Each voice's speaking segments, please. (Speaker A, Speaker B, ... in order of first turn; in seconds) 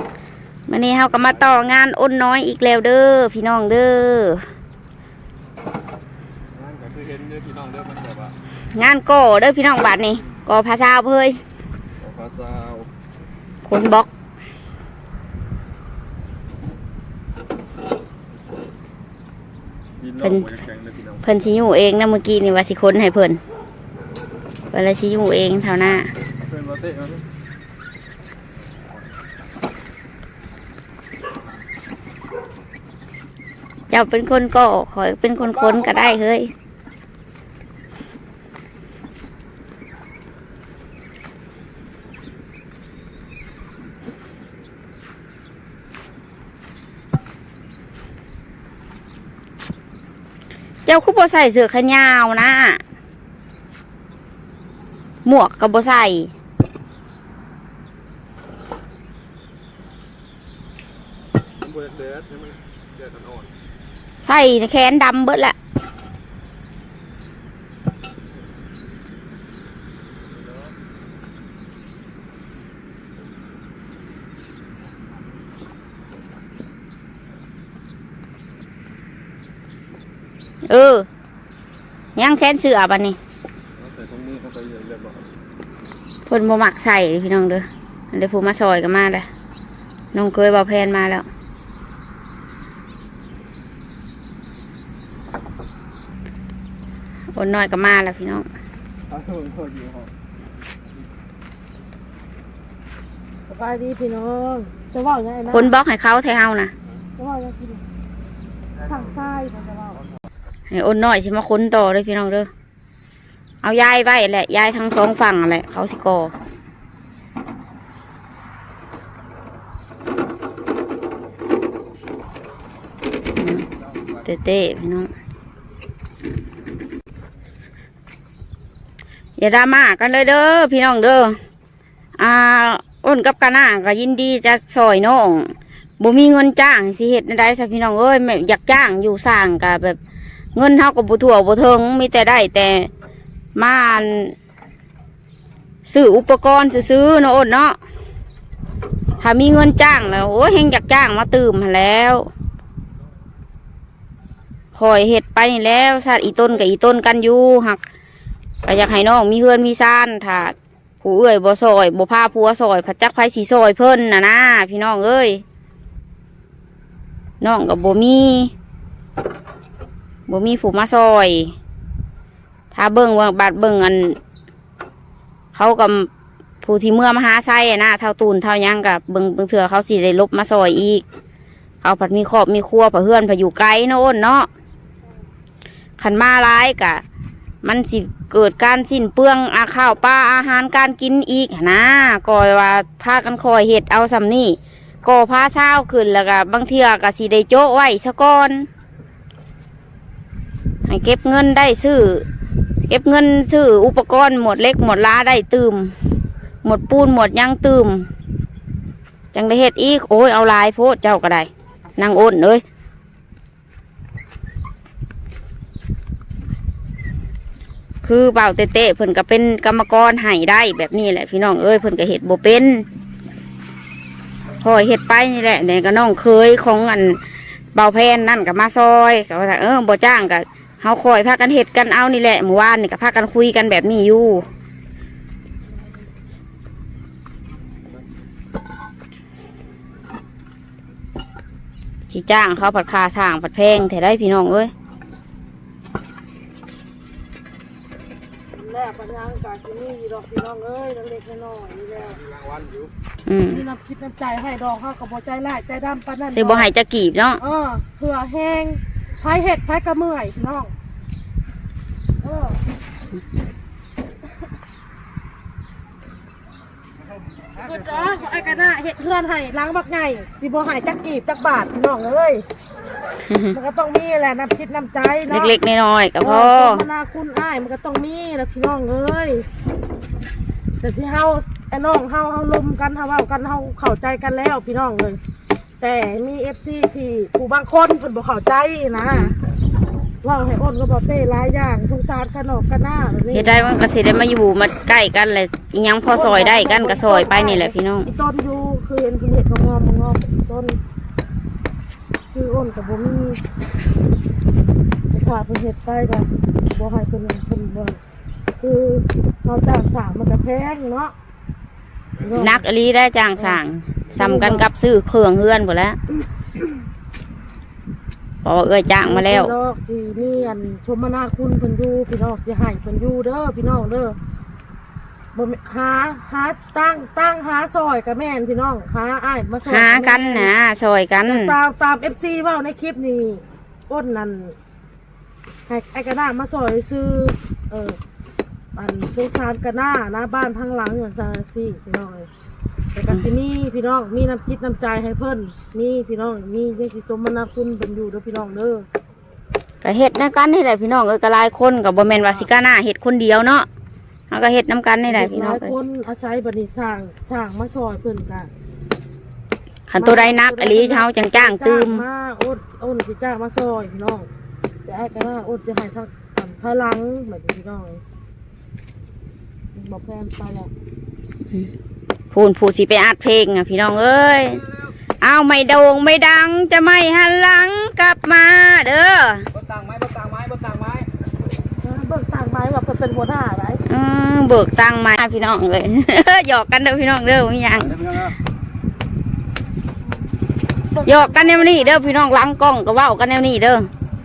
Speaker A: 0.7-4.5, 8.8-11.4, 13.7-14.1, 20.2-20.5, 21.2-23.4, 24.7-26.1, 33.9-36.5, 50.9-52.8, 55.2-56.3, 64.2-65.6, 80.7-81.1, 82.2-83.2, 86.3-89.3, 90.1-91.3, 97.3-98.5, 105.5-106.7, 110.7-112.5, 113.6-116.3, 123.4-123.7, 124.2-125.1, 129.4-131.4, 132.2-140.0, 140.6-142.9, 143.6-144.3, 145.9-147.8, 149.2-152.3, 154.7-157.8, 158.7-165.4, 167.4-168.5, 170.3-171.6, 172.7-174.2, 175.5-176.1, 176.6-181.0, 181.8-184.5, 186.0-187.0, 187.6-198.7, 200.9-202.3, 202.9-205.9, 206.6-208.1, 209.3-212.6, 218.0-222.8, 224.6-227.2, 227.7-234.5, 242.1-244.7, 253.3-253.7, 256.3-257.4, 273.3-273.6, 275.3-276.9, 293.3-298.1, 312.3-316.0, 318.4-319.5, 329.7-331.6, 349.8-353.7, 354.3-355.8, 359.9-362.0, 372.3-374.6, 375.2-379.5, 383.9-388.1, 391.0-393.9
Speaker B: 6.5-8.3, 12.0-12.9, 20.0-21.2, 26.5-27.2, 35.5-36.2, 61.6-63.5, 83.8-85.2, 99.1-100.1, 252.4-252.9, 379.5-381.1, 387.8-388.4
Speaker C: 103.5-105.7, 107.2-107.8, 108.8-110.0, 248.6-252.3, 253.5-256.7, 257.4-260.7, 262.2-262.6, 267.6-272.5, 273.5-275.6, 276.2-279.5, 280.8-285.2, 285.8-289.3, 290.2-293.8, 296.1-300.8, 302.3-303.4, 305.1-308.0, 308.6-311.1, 312.2-312.6, 314.2-314.7, 319.0-324.2, 325.3-330.5, 331.3-334.6, 335.7-338.0, 338.8-342.3, 342.9-348.9, 355.1-358.5, 360.0-364.3, 364.9-368.0, 369.8-370.7, 381.8-383.8, 390.9-392.1